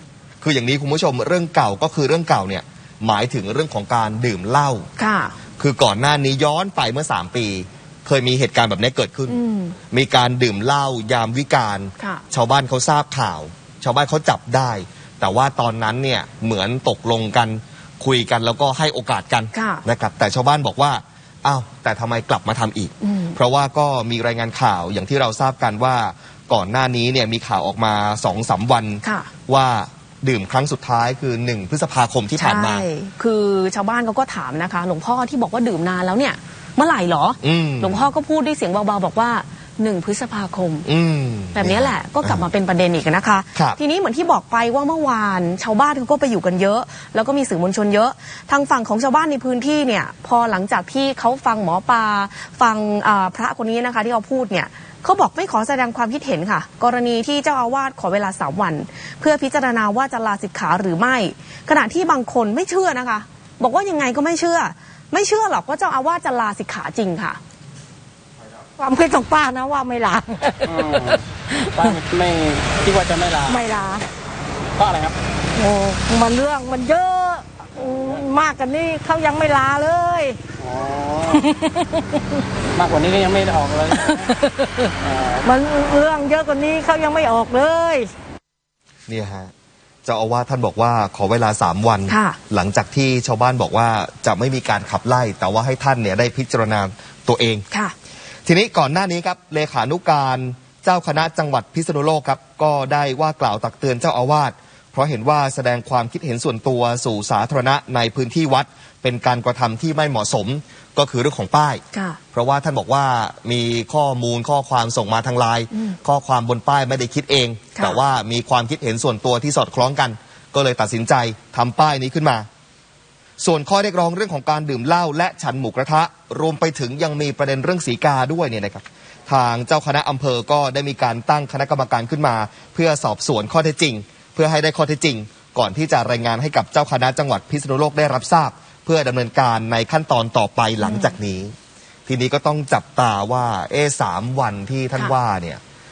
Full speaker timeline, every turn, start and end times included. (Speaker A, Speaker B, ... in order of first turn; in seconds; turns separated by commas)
Speaker A: 0.4-4.9, Speaker B: 5.0-5.3, Speaker A: 5.6-9.4, Speaker B: 9.3-9.7, Speaker A: 9.9-32.9, Speaker B: 19.5-19.8, Speaker B: 23.0-23.4, Speaker B: 29.0-29.3, Speaker B: 32.4-40.9, Speaker A: 37.4-38.1, Speaker A: 40.9-42.4, Speaker B: 41.5-67.4, Speaker C: 68.8-72.0, Speaker D: 70.6-73.6, Speaker C: 73.5-74.0, Speaker D: 74.8-75.2, Speaker C: 75.5-80.4, Speaker D: 80.6-81.4, Speaker C: 81.3-82.1, Speaker D: 82.7-84.3, Speaker C: 84.0-84.3, Speaker D: 85.0-85.5, Speaker C: 85.4-88.1, Speaker A: 89.1-89.5, Speaker A: 90.0-97.7, Speaker B: 92.1-92.4, Speaker A: 98.5-122.5, Speaker B: 111.9-112.2, Speaker A: 123.4-141.5, Speaker B: 140.8-141.1, Speaker A: 142.1-145.6